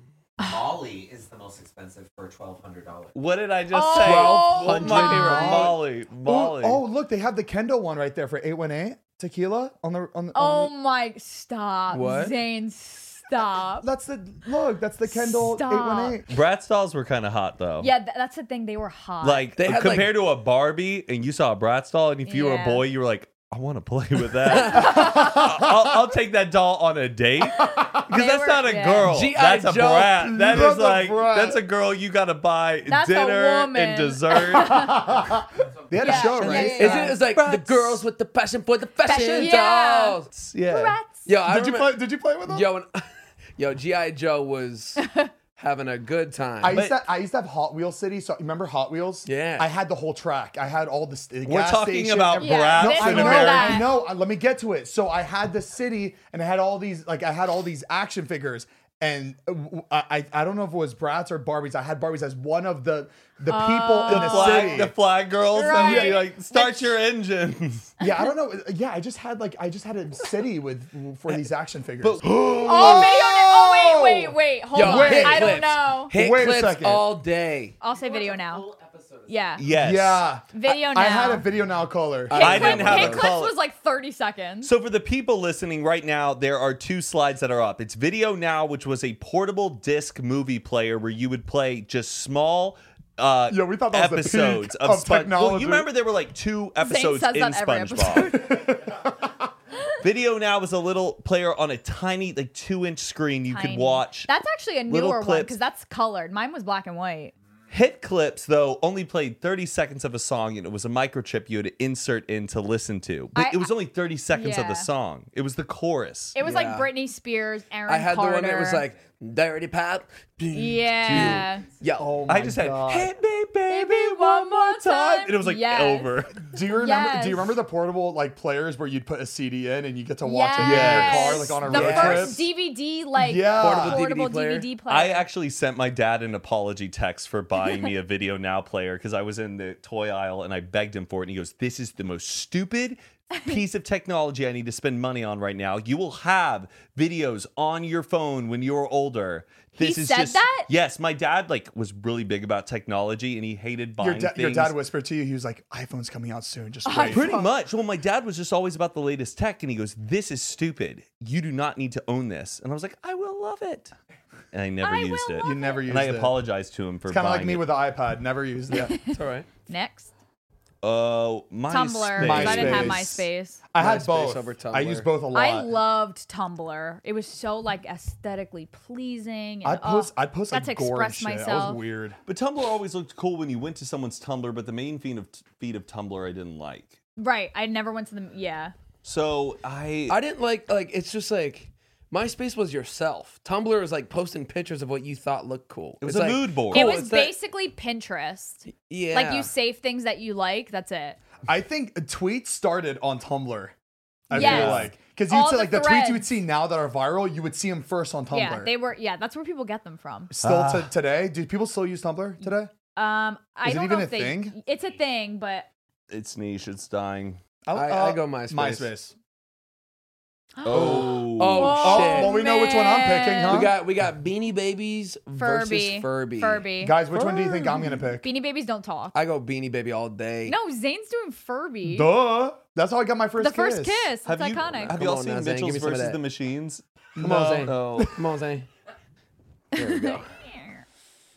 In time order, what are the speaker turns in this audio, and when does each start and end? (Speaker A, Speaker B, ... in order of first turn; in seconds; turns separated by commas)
Speaker A: 0.4-0.7, Speaker B: 0.4-3.2, Speaker C: 3.1-6.8, Speaker A: 3.7-5.6, Speaker D: 4.0-5.7, Speaker E: 5.0-10.7, Speaker A: 10.3-13.9, Speaker D: 11.9-12.3, Speaker E: 13.4-16.3, Speaker A: 15.0-16.2, Speaker C: 16.3-17.9, Speaker A: 17.8-19.5, Speaker C: 19.2-34.9, Speaker D: 19.6-20.1, Speaker A: 22.3-22.8, Speaker A: 24.5-25.4, Speaker D: 24.5-24.8, Speaker E: 24.7-25.9, Speaker A: 27.5-29.1, Speaker D: 29.0-30.1, Speaker E: 30.2-31.6, Speaker A: 32.9-35.0, Speaker E: 34.7-37.2, Speaker B: 35.6-36.5, Speaker A: 36.0-37.2, Speaker C: 36.5-38.0, Speaker D: 36.7-40.3, Speaker A: 39.0-40.2, Speaker C: 39.1-39.5, Speaker C: 40.3-41.0, Speaker A: 40.7-41.3, Speaker D: 41.2-43.0, Speaker E: 41.4-42.7, Speaker D: 43.6-45.0, Speaker A: 45.0-45.3, Speaker D: 45.5-46.8, Speaker E: 46.6-65.0, Speaker C: 46.7-47.0, Speaker D: 49.2-49.7, Speaker C: 51.5-53.9, Speaker A: 52.4-53.9, Speaker A: 63.5-64.9, Speaker C: 64.1-67.9, Speaker A: 65.5-67.0, Speaker E: 65.6-66.2, Speaker E: 68.0-77.2, Speaker C: 72.0-73.0, Speaker A: 72.6-76.1, Speaker D: 74.7-77.8, Speaker A: 77.8-78.7, Speaker B: 77.8-79.7, Speaker A: 79.3-79.6, Speaker C: 79.6-80.3, Speaker E: 79.7-83.2, Speaker A: 80.5-81.5, Speaker A: 82.3-84.7, Speaker C: 82.3-83.6, Speaker D: 82.4-83.2, Speaker C: 84.6-98.5, Speaker E: 93.5-95.9, Speaker A: 96.8-98.6, Speaker E: 98.2-99.4, Speaker C: 100.0-104.3, Speaker A: 103.5-107.3, Speaker C: 104.9-105.6, Speaker C: 107.7-116.4, Speaker A: 113.3-113.7, Speaker A: 114.3-114.9, Speaker A: 116.3-118.8, Speaker D: 116.4-116.9, Speaker D: 117.9-122.1, Speaker A: 120.5-121.7, Speaker E: 121.9-123.1, Speaker C: 122.3-126.4, Speaker A: 123.7-126.1, Speaker E: 126.4-132.5, Speaker A: 126.7-127.5, Speaker A: 130.2-135.3, Speaker C: 130.6-132.2, Speaker D: 131.7-132.4, Speaker E: 133.2-134.0, Speaker D: 133.5-134.7, Speaker C: 134.9-154.8, Speaker A: 137.6-137.9, Speaker A: 143.3-143.6, Speaker A: 149.8-150.7, Speaker E: 154.0-157.4, Speaker A: 156.8-157.5, Speaker C: 157.1-163.9, Speaker C: 164.5-167.7, Speaker A: 164.8-165.8, Speaker E: 165.4-166.4, Speaker E: 167.1-169.0, Speaker A: 168.7-170.1, Speaker D: 169.1-169.5, Speaker C: 170.8-173.2, Speaker A: 171.7-173.6, Speaker E: 172.2-173.2, Speaker E: 173.7-175.7, Speaker D: 173.8-175.1, Speaker A: 175.3-181.8, Speaker E: 179.6-182.2, Speaker C: 182.2-186.9, Speaker A: 187.2-188.7, Speaker C: 189.0-190.2, Speaker D: 190.1-197.3, Speaker C: 196.0-197.1, Speaker A: 196.7-201.2, Speaker D: 198.7-199.5, Speaker E: 201.5-203.7, Speaker E: 204.3-208.7, Speaker C: 204.3-204.9, Speaker A: 204.3-206.3, Speaker D: 204.4-204.8, Speaker A: 208.3-210.3, Speaker E: 210.3-212.7, Speaker C: 210.4-210.9, Speaker A: 212.4-215.7, Speaker E: 213.6-214.5, Speaker C: 216.1-217.4, Speaker E: 217.6-219.1, Speaker D: 217.7-218.9, Speaker A: 220.6-223.7, Speaker C: 220.6-221.8, Speaker D: 220.7-222.3, Speaker E: 221.8-223.8, Speaker D: 223.5-228.0, Speaker A: 225.3-227.5, Speaker E: 226.8-228.3, Speaker A: 228.0-229.1, Speaker D: 229.1-230.6, Speaker A: 230.4-232.1, Speaker E: 231.8-234.1, Speaker A: 233.4-234.9, Speaker C: 234.2-238.2, Speaker D: 234.9-236.2, Speaker E: 237.2-238.1, Speaker D: 237.2-238.7, Speaker A: 239.7-240.8, Speaker D: 239.8-240.3